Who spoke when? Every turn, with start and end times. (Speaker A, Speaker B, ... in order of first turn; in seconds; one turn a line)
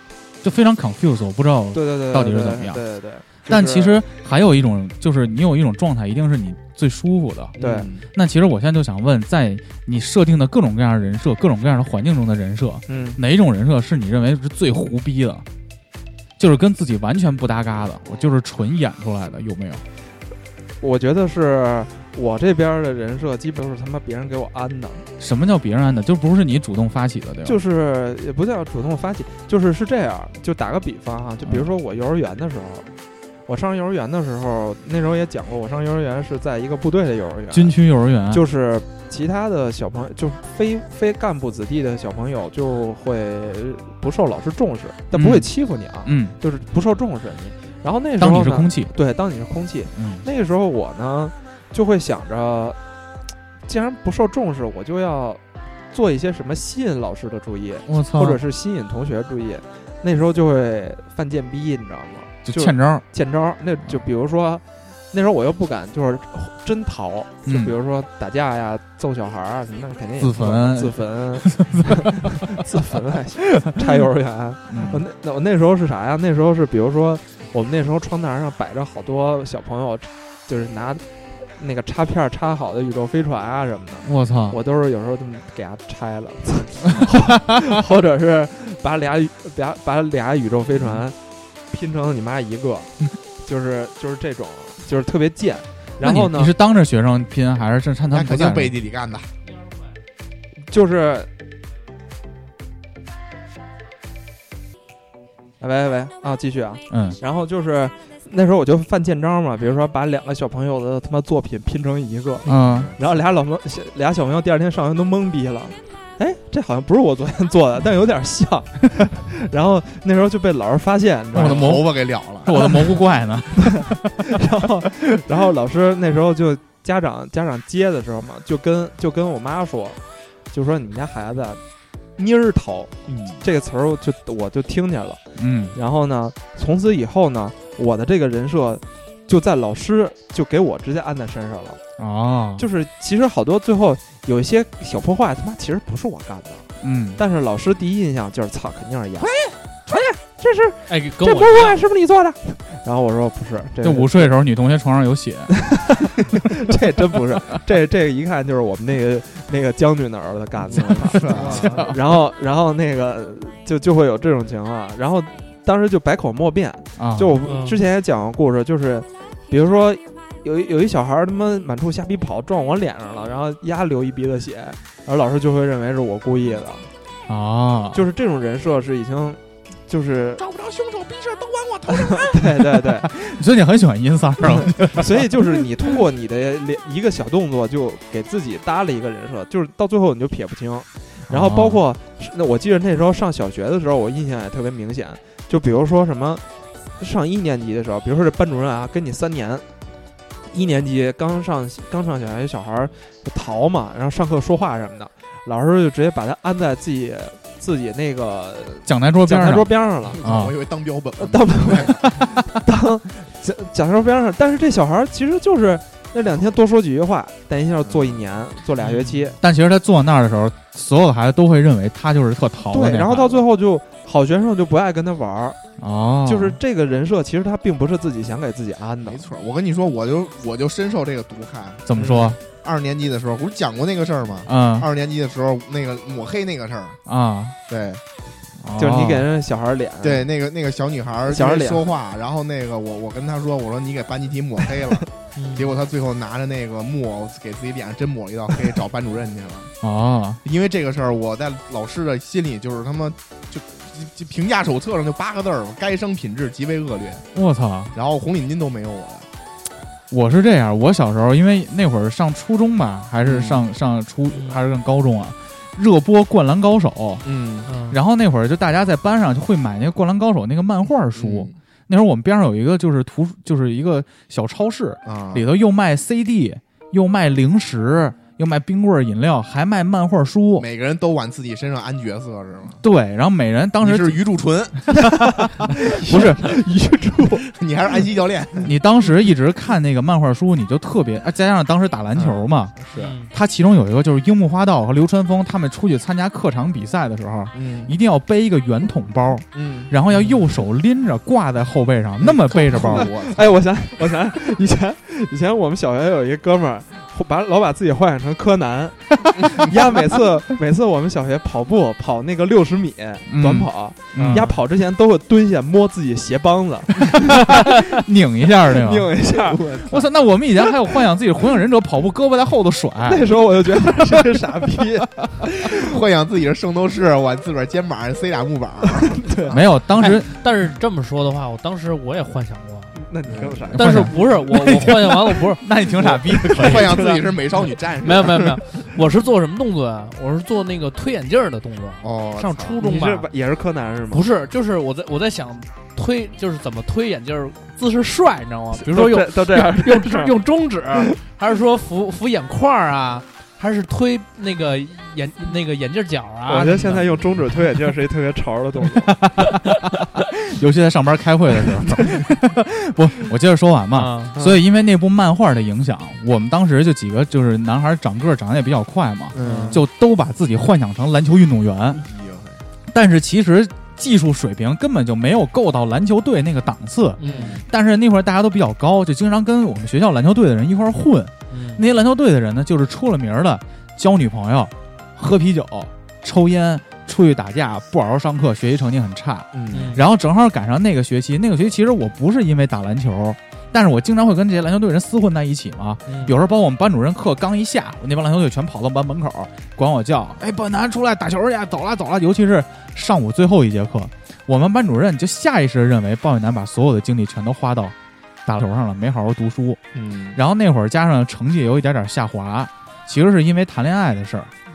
Speaker A: 0.4-2.8
Speaker B: 1.7-4.0
Speaker A: 3.5-7.6
Speaker C: 7.5-8.0
Speaker B: 7.6-7.9
Speaker A: 8.1-15.4
Speaker B: 12.9-13.2
Speaker A: 16.4-19.8
Speaker B: 20.8-25.1
Speaker A: 25.2-27.6
Speaker B: 27.4-32.9
Speaker A: 31.4-31.7
Speaker B: 33.5-37.7
Speaker A: 37.5-38.4
Speaker B: 38.3-52.8
Speaker A: 45.1-45.5
Speaker A: 46.0-46.4
Speaker A: 48.2-48.9
Speaker A: 49.9-50.2
Speaker B: 53.6-55.4
Speaker B: 55.9-91.2
Speaker A: 57.9-58.4
Speaker A: 62.4-63.0
Speaker A: 67.5-67.7
Speaker A: 70.2-72.0
Speaker A: 74.7-75.0
Speaker A: 84.0-84.6
Speaker B: 91.7-96.5
Speaker A: 96.0-98.8
Speaker C: 98.1-99.3
Speaker B: 100.7-101.3
Speaker B: 105.6-121.9
Speaker A: 106.9-107.2
Speaker A: 112.5-112.9
Speaker C: 121.3-122.5
Speaker A: 121.3-124.3
Speaker B: 122.5-122.9
Speaker B: 123.6-130.0
Speaker B: 130.5-131.6
Speaker B: 132.2-135.2
Speaker C: 133.1-133.4
Speaker A: 135.4-135.8
Speaker B: 135.7-141.8
Speaker A: 142.0-142.7
Speaker B: 142.6-149.3
Speaker A: 146.8-147.2
Speaker B: 149.9-154.3
Speaker D: 150.9-151.8
Speaker A: 153.8-155.7
Speaker B: 155.6-176.8
Speaker C: 160.7-161.8
Speaker A: 160.8-162.0
Speaker A: 167.0-167.3
Speaker D: 167.4-167.8
Speaker A: 177.3-178.0
Speaker B: 177.9-180.4
Speaker C: 180.4-182.4
Speaker B: 182.0-183.1
Speaker A: 182.6-185.6
Speaker B: 184.9-196.4
Speaker A: 191.3-191.8
Speaker B: 197.0-199.6
Speaker B: 200.5-210.2
Speaker A: 208.8-210.6
Speaker C: 210.1-212.2
Speaker B: 211.2-219.4
Speaker C: 217.8-218.2
Speaker A: 219.4-223.4
Speaker B: 222.7-225.6
Speaker A: 225.8-226.6
Speaker B: 226.2-229.3
Speaker C: 229.0-237.0
Speaker A: 231.8-232.4
Speaker B: 232.0-232.3
Speaker A: 234.4-234.9
Speaker A: 237.1-237.6
Speaker C: 237.7-238.0
Speaker A: 238.6-239.3
Speaker B: 238.8-240.3
Speaker C: 240.0-249.7
Speaker B: 241.3-241.9
Speaker D: 245.3-245.7
Speaker A: 249.8-250.4
Speaker C: 250.4-257.2
Speaker A: 257.3-257.9
Speaker C: 257.9-259.3
Speaker A: 260.1-267.2
Speaker C: 263.2-263.6
Speaker D: 264.3-264.6
Speaker C: 267.2-267.7
Speaker D: 267.7-268.0
Speaker A: 267.9-280.7
Speaker C: 271.1-271.6
Speaker C: 275.0-275.4
Speaker C: 280.6-282.8
Speaker A: 282.8-284.2
Speaker C: 283.8-286.2
Speaker B: 286.0-287.5
Speaker A: 286.0-286.5
Speaker C: 287.5-288.7
Speaker A: 288.6-292.8
Speaker C: 292.1-293.1
Speaker D: 292.9-293.3
Speaker A: 293.3-303.1
Speaker C: 297.5-297.9
Speaker C: 299.5-299.9
Speaker C: 302.2-303.4
Speaker B: 302.7-317.7
Speaker A: 313.3-314.5
Speaker A: 317.1-319.1
Speaker B: 318.7-319.9
Speaker C: 319.5-319.9
Speaker A: 319.8-323.4
Speaker B: 323.0-325.2
Speaker C: 325.6-329.6
Speaker B: 329.2-329.6
Speaker A: 329.5-330.3
Speaker D: 330.0-333.0
Speaker B: 332.9-334.2
Speaker C: 333.3-333.8
Speaker A: 333.7-337.1
Speaker D: 333.7-335.6
Speaker C: 336.0-338.6
Speaker B: 336.6-337.2
Speaker D: 338.0-343.3
Speaker C: 342.0-342.8
Speaker B: 342.8-344.2
Speaker D: 344.1-357.1
Speaker B: 348.7-350.3
Speaker B: 356.5-359.1
Speaker A: 359.1-359.7
Speaker A: 360.4-372.0
Speaker D: 363.9-364.3
Speaker C: 369.3-369.8
Speaker D: 369.4-369.8
Speaker C: 371.9-372.6
Speaker A: 372.9-407.9
Speaker D: 377.2-377.6
Speaker C: 377.2-377.6
Speaker D: 381.5-381.8
Speaker C: 389.5-390.0
Speaker D: 389.7-390.0
Speaker D: 396.1-396.4
Speaker A: 408.4-409.8
Speaker C: 409.9-410.4
Speaker A: 410.3-414.5